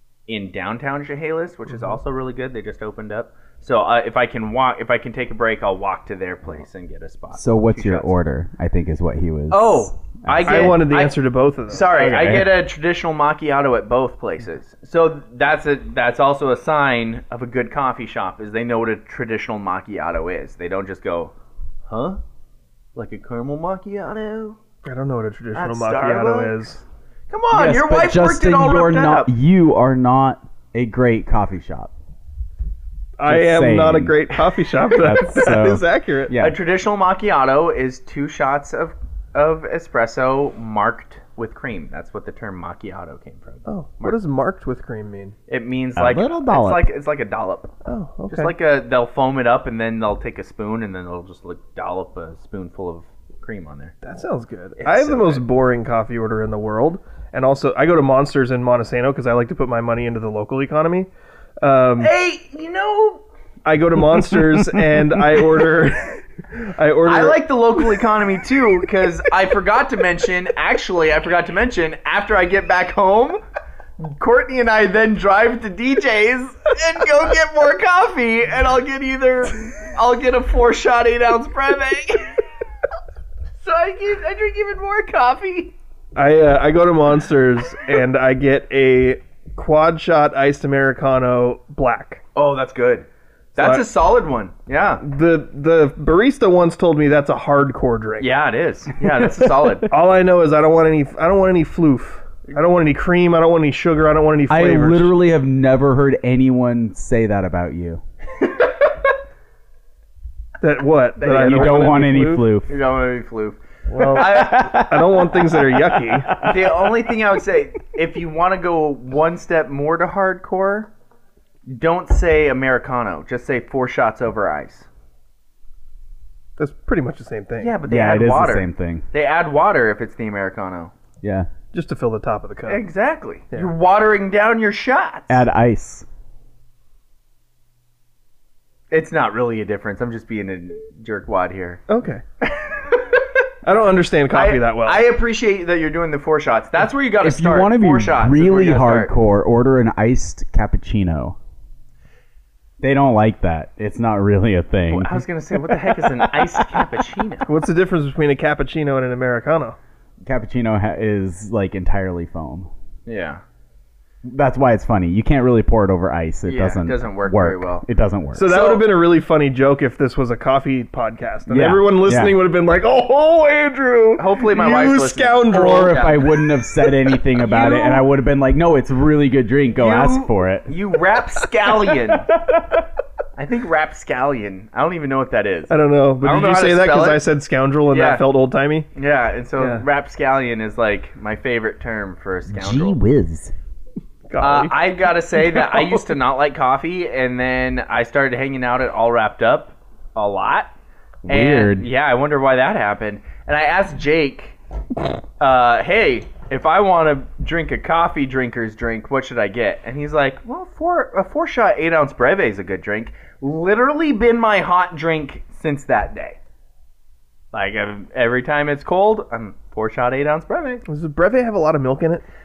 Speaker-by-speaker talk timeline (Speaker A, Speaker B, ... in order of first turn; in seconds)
Speaker A: 0.3-8.1, 9.5-11.2, 11.7-21.3, 21.9-22.2, 22.9-24.6, 25.5-26.6, 27.3-29.3, 36.4-44.2, 45.5-47.7, 48.3-53.9, 54.8-55.4, 62.0-63.2, 67.0-73.4, 74.0-82.3, 83.6-85.7, 92.3-95.0, 98.2-99.9, 111.2-112.0, 112.7-114.8, 116.3-120.9, 121.7-124.9, 127.6-130.9, 132.7-135.4, 138.9-141.8, 142.4-143.2, 144.3-149.1, 154.9-157.5, 163.1-163.4, 166.4-167.8, 168.4-168.8, 174.2-176.2, 179.7-182.3, 183.3-187.2, 187.9-188.2, 188.9-193.0, 194.4-200.7, 201.2-204.6, 205.4-216.4, 217.5-220.8
Speaker B: 1.7-2.0, 10.4-12.3, 24.8-26.8, 33.2-36.3, 43.6-45.4, 47.8-48.5, 54.0-61.1, 61.6-62.1, 63.6-67.4, 86.1-92.2, 93.5-93.8, 95.0-98.3, 99.9-105.1, 110.6-112.5, 113.9-116.3, 126.6-127.7, 131.7-132.8, 141.9-142.2, 143.6-145.0, 157.5-159.8, 168.3-176.3, 177.5-178.0, 185.7-188.9, 189.6-189.8, 194.3-194.7, 195.5-196.0, 220.8-222.2
Speaker C: 7.3-10.8, 12.0-12.6, 27.5-31.9, 33.2-34.2, 34.9-36.6, 46.0-46.9, 64.4-64.8, 104.5-108.0, 111.4-112.7, 114.0-117.1, 127.8-129.1, 131.2-131.5, 135.3-136.1, 147.2-151.3, 152.8-156.9, 160.2-162.7, 164.2-168.5, 171.5-172.3, 175.5-180.7, 192.5-193.5, 201.2-201.9